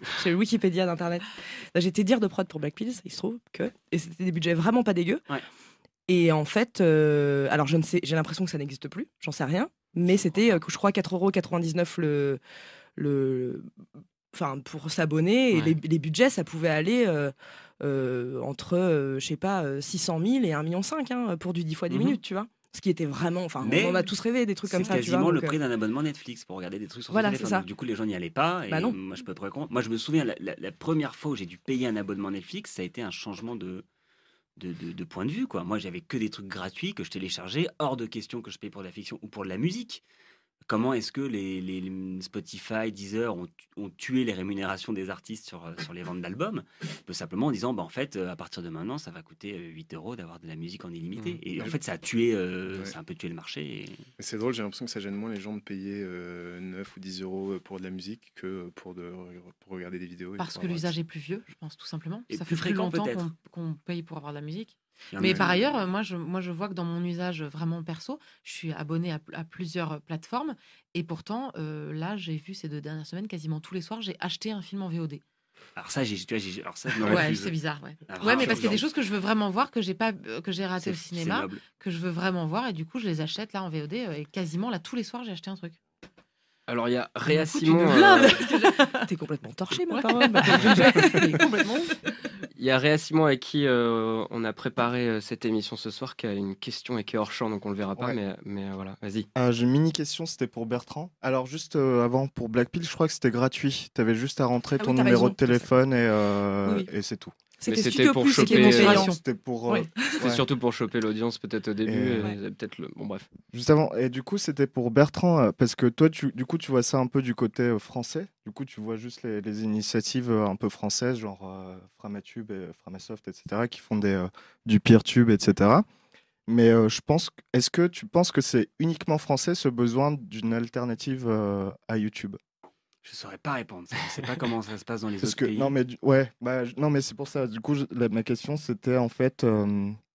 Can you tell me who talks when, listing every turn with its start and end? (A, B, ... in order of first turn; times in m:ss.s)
0:00.1-0:05.2 A
0:06.1-0:12.4 A
0:13.0-0:13.7 A
0:14.3-0:25.6 A
0:23.6-0:24.1 B
0:24.6-0:33.8 B
0:27.1-0:27.6 A
0:28.7-0:29.0 A
0:34.6-0:40.0 B
0:40.7-0:54.0 B
0:54.2-1:00.9 C
1:00.4-1:15.2 D
1:02.3-1:03.2 B
1:05.1-1:05.6 B
1:05.2-1:05.6 C
1:15.8-1:17.5 B
1:17.0-1:25.8 D
1:18.1-1:18.8 B
1:20.8-1:21.6 B
1:26.7-1:28.4 E
1:27.3-1:29.1 D
1:28.4-1:31.6 A
1:29.9-1:32.0 D
1:32.6-1:39.3 E
1:39.3-1:47.4 F
1:44.8-1:45.7 A
1:47.6-1:49.2 A
1:47.7-1:49.1 E
1:48.4-1:49.2 D
1:48.6-1:50.4 F
1:49.7-1:50.2 A
1:50.2-1:53.3 E
1:51.8-1:52.3 F
1:53.5-2:05.8 F
2:06.5-2:12.4 F
2:13.0-2:15.8 B
2:15.2-2:20.0 F